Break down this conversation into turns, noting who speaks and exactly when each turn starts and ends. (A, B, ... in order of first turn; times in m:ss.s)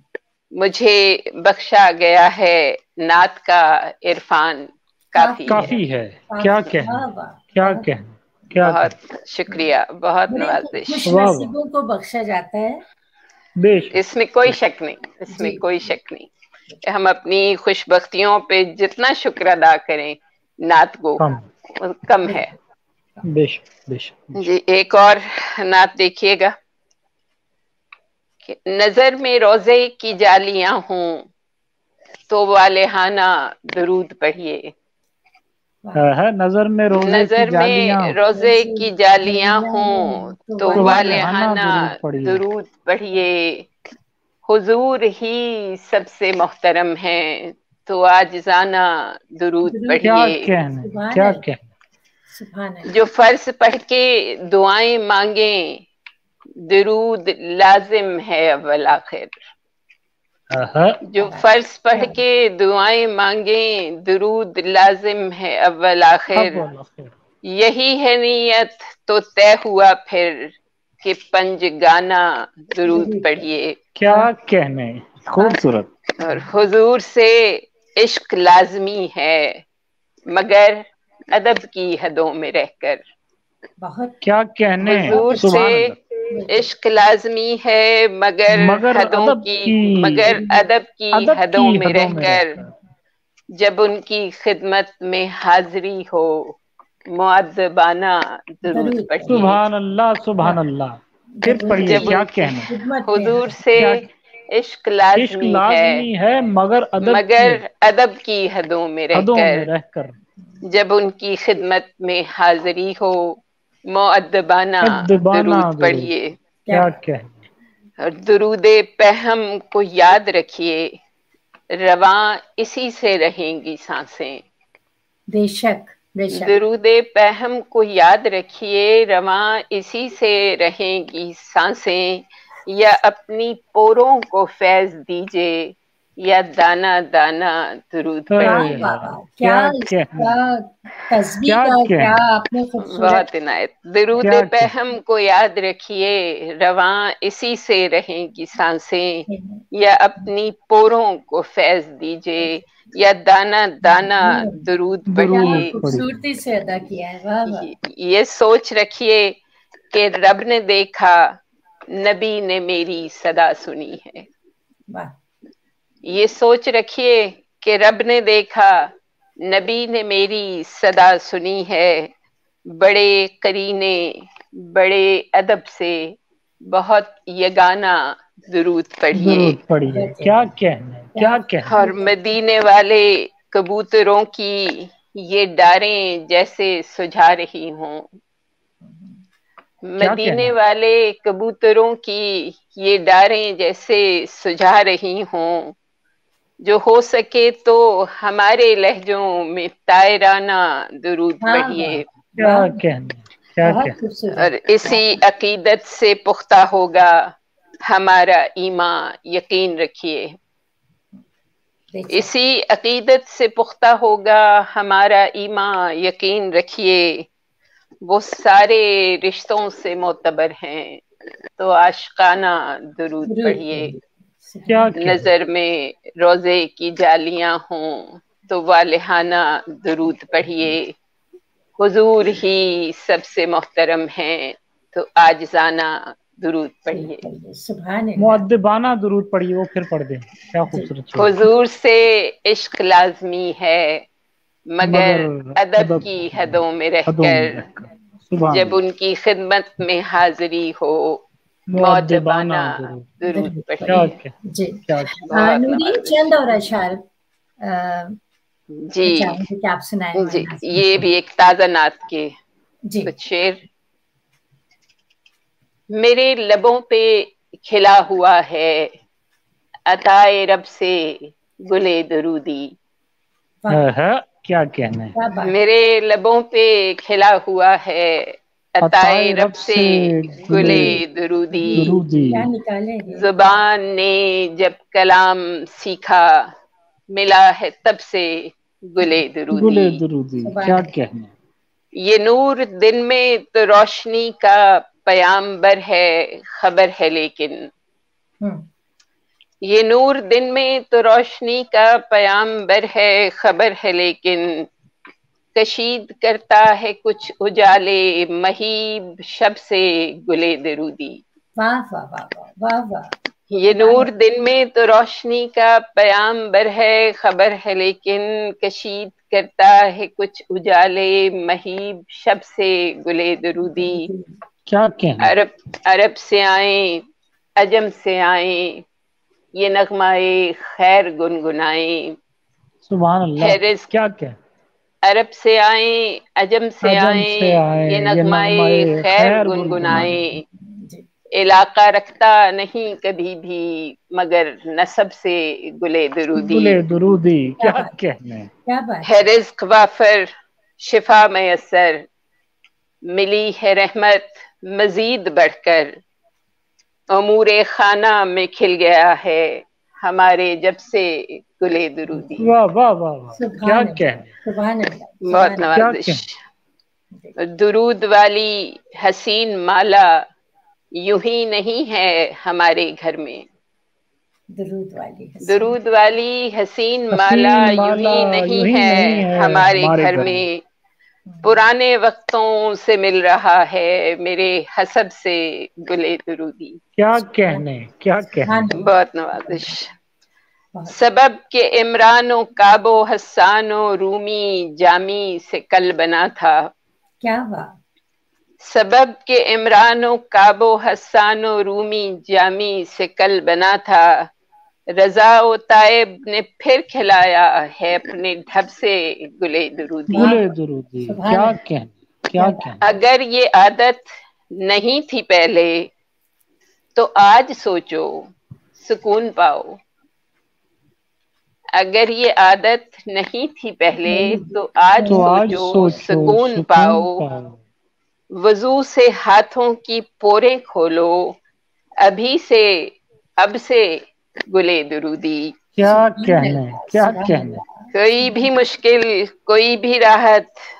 0:00.5-0:05.7 A
0:05.1-0:07.9 B
0:05.5-0:08.9 C
0:08.6-0:11.0 A
0:10.3-0:12.8 B
0:11.0-0:11.5 C
0:13.6-0:14.6 C
0:13.9-0:16.3 A
0:15.3-0:15.9 B
0:16.8-0:22.5 A
0:21.2-0:21.5 C
0:22.2-0:22.5 B
0:23.2-0:24.5 C
0:24.4-0:26.5 A
0:28.4-0:31.2 A
0:32.3-0:34.7 A
0:36.0-0:38.2 C
0:36.9-0:43.7 A
0:38.3-0:41.3 B
0:40.7-0:42.4 C
0:44.4-0:50.5 A
0:49.6-0:50.2 B
0:50.0-0:51.6 C
0:50.8-0:51.4 B
0:52.3-0:52.9 B
0:52.9-0:55.8 A
0:56.6-0:59.4 A
1:00.5-1:01.0 C
1:01.1-1:06.6 A
1:01.2-1:02.2 B
1:06.3-1:07.1 C
1:07.5-1:13.8 A
1:12.9-1:13.4 B
1:14.0-1:15.9 C
1:14.0-1:14.3 B
1:15.4-1:15.6 B
1:16.2-1:19.6 A
1:20.3-1:23.0 A
1:23.8-1:24.2 B
1:24.2-1:26.0 C
1:24.8-1:25.6 B
1:24.9-1:26.0 A
1:26.3-1:26.7 B
1:26.5-1:32.6 A
1:28.5-1:30.4 C
1:30.3-1:30.6 B
1:31.1-1:32.7 C
1:33.5-1:36.6 A
1:37.1-1:39.6 A
1:38.7-1:39.5 B
1:39.3-1:42.7 C
1:41.4-1:43.9 B
1:41.8-1:42.5 A
1:43.1-1:46.0 A
1:43.8-1:44.0 C
1:45.1-1:47.6 C
1:47.0-1:49.7 A
1:49.1-1:50.1 C
1:50.6-1:56.4 A
1:54.8-1:56.1 C
1:56.6-1:56.9 B
1:56.7-1:57.4 C
1:58.0-2:00.9 A
2:01.7-2:04.4 A
2:05.3-2:06.6 B
2:06.3-2:18.9 A
2:18.3-2:20.4 C
2:18.4-2:23.2 B
2:21.4-2:22.2 C
2:22.8-2:36.0 A
2:24.2-2:24.7 C
2:29.3-2:29.6 B
2:33.8-2:37.7 B
2:35.1-2:36.1 C
2:37.4-2:39.4 A
2:39.9-2:41.4 A
2:41.9-2:44.2 A
2:44.9-2:45.2 B
2:46.0-2:48.9 A
2:49.4-2:52.1 A
2:52.6-2:59.6 A
2:59.1-3:01.8 C
2:59.8-3:00.5 B
3:01.1-3:02.2 B
3:01.6-3:08.1 A
3:08.8-3:09.2 B
3:09.8-3:15.7 A
3:10.0-3:10.5 C
3:16.6-3:22.0 A
3:21.4-3:22.8 B
3:22.4-3:24.0 C
3:23.6-3:25.0 B
3:24.4-3:27.3 A
3:27.8-3:30.4 A
3:31.9-3:32.3 B
3:32.1-3:37.2 A
3:38.0-3:41.0 A
3:41.6-3:43.9 A
3:43.2-3:45.0 B
3:44.7-3:45.3 C
3:45.0-3:50.9 A
3:51.8-3:57.2 A
3:56.9-3:58.4 B
3:58.2-4:01.5 C
4:01.1-4:04.0 A
4:04.7-4:07.6 A
4:04.8-4:08.8 C
4:08.5-4:14.2 A
4:11.7-4:13.1 C
4:13.3-4:17.0 B
4:13.9-4:14.3 C
4:14.9-4:15.2 C
4:15.2-4:16.3 A
4:17.6-4:18.2 B
4:18.8-4:19.4 A
4:19.0-4:21.1 B
4:20.1-4:22.3 A
4:23.1-4:23.6 A
4:25.9-4:28.9 A
4:29.8-4:32.7 A
4:33.7-4:35.1 C
4:35.1-4:35.6 B
4:35.3-4:42.0 A
4:38.8-4:41.0 C
4:40.5-4:43.4 B
4:41.7-4:42.5 C
4:43.1-4:46.5 A
4:47.1-4:50.0 A
4:49.5-4:51.3 C
4:50.4-4:50.9 B
4:52.0-4:57.7 A
4:59.6-5:04.7 A
5:05.5-5:11.2 A
5:11.6-5:13.1 B
5:13.5-5:24.1 A
5:13.7-5:14.1 B
5:23.6-5:24.4 B
5:24.7-5:25.4 C
5:25.2-5:27.0 A
5:27.6-5:28.8 A
5:29.5-5:32.2 A
5:32.8-5:34.4 C
5:33.4-5:33.9 A
5:35.0-5:40.4 A
5:36.8-5:40.2 C
5:39.8-5:41.1 B
5:41.3-5:46.8 A
5:46.3-5:48.5 C
5:47.6-5:48.0 B
5:48.6-5:49.3 B
5:49.0-5:52.0 A
5:53.1-5:56.0 A
5:57.1-6:02.5 A
6:02.4-6:04.3 C
6:03.4-6:05.8 B
6:05.2-6:06.3 A
6:05.7-6:06.3 C
6:07.4-6:10.2 A
6:11.0-6:13.5 A
6:14.5-6:15.8 B
6:15.4-6:20.6 A
6:17.1-6:20.4 C
6:21.3-6:21.6 B
6:21.4-6:26.8 A
6:27.0-6:28.7 C
6:27.1-6:27.6 B
6:28.4-6:29.8 B
6:28.7-6:29.9 A
6:30.9-6:36.7 A
6:37.2-6:37.8 B
6:38.6-6:44.3 A
6:44.9-6:50.4 A
6:50.1-6:52.8 C
6:50.2-6:50.4 B
6:51.0-6:51.6 B
6:52.4-6:52.8 B
6:52.8-6:55.9 A
6:56.9-6:58.2 A
6:58.8-6:59.8 A
7:01.8-7:07.2 A
7:04.1-7:05.9 B
7:05.0-7:07.6 C
7:08.3-7:11.4 A
7:12.0-7:15.6 A
7:15.8-7:17.6 C
7:15.8-7:18.5 B
7:17.9-7:20.6 A